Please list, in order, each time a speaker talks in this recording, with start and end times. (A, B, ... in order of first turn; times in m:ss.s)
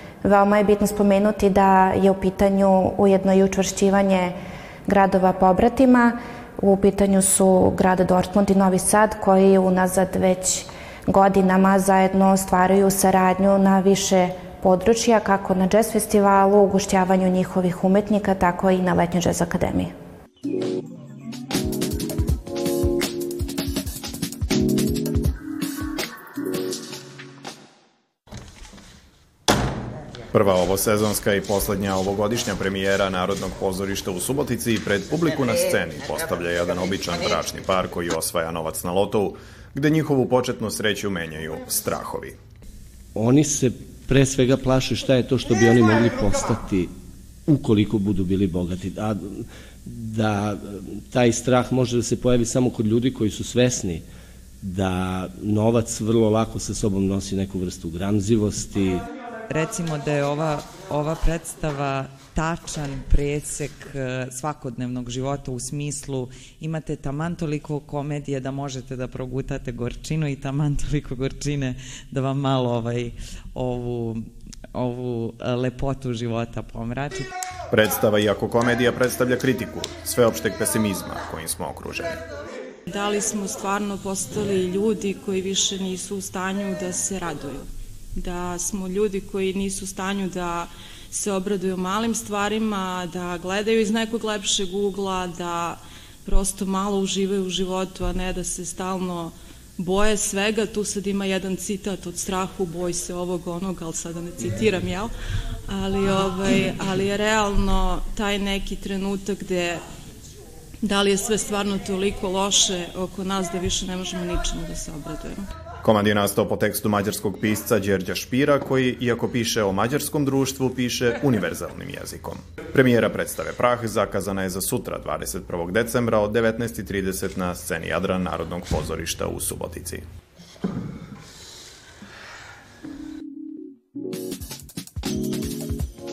0:00.2-0:04.3 A
0:04.9-0:19.9 A
0:30.3-0:42.3 B
0:43.2-0:46.9 C
0:47.5-0:54.0 C
0:54.6-0:59.0 C
0:59.5-1:17.3 D
1:17.7-1:22.2 B
1:22.9-1:45.1 E
1:45.7-1:49.8 E
1:50.8-1:55.4 E
1:55.8-2:10.0 B